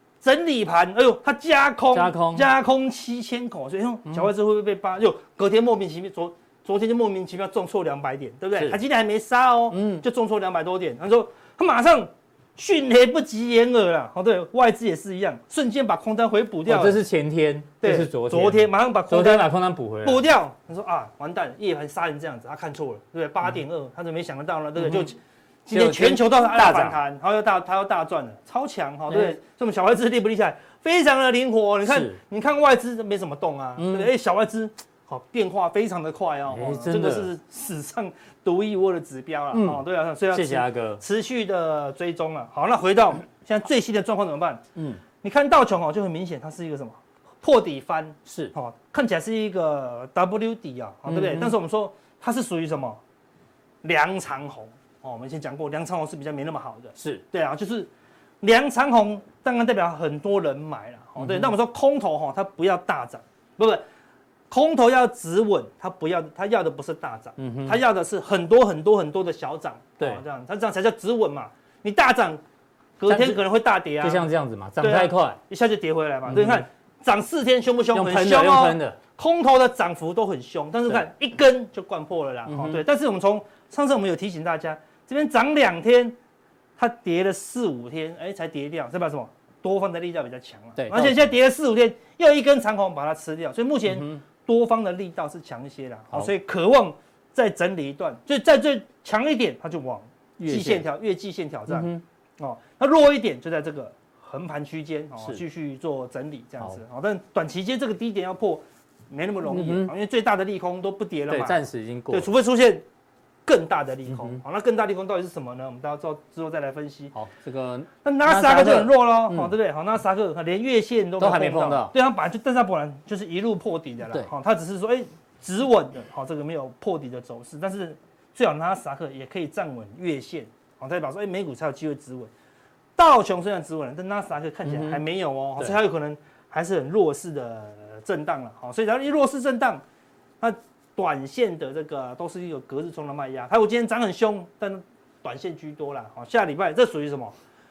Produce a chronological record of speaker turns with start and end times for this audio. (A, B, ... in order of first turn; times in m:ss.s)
0:00.2-0:17.0 A
0:01.9-0:02.5 B
0:09.7-0:10.0 B
0:16.6-0:20.2 B
0:17.8-0:19.5 A
0:20.0-0:44.6 A
0:24.8-0:25.1 B
0:25.7-0:27.0 B
0:29.1-0:29.4 B
0:31.8-0:32.2 B
0:33.8-0:34.1 B
0:36.5-0:37.3 B
0:39.5-0:41.0 B
0:44.8-0:45.0 B
0:45.2-0:53.0 A
0:48.2-0:48.5 B
0:51.1-0:51.5 B
0:53.8-0:57.9 A
0:57.0-0:57.2 B
0:58.4-1:03.8 A
1:01.2-1:01.5 B
1:04.5-1:12.4 A
1:07.4-1:07.8 B
1:13.0-1:14.3 A
1:13.0-1:13.4 B
1:14.0-1:15.4 B
1:14.8-1:26.2 A
1:16.3-1:16.6 B
1:17.9-1:19.0 B
1:22.5-1:22.8 B
1:26.8-1:52.8 A
1:30.8-1:31.3 B
1:33.9-1:34.2 B
1:40.4-1:40.9 B
1:41.7-1:42.0 B
1:49.5-1:49.9 B
1:51.3-1:52.3 B
1:53.4-1:57.1 A
1:54.1-1:54.4 B
1:57.1-1:59.5 B
1:58.0-2:12.3 A
2:01.2-2:01.9 B
2:13.0-2:19.8 A
2:14.6-2:15.0 B
2:20.4-2:27.3 A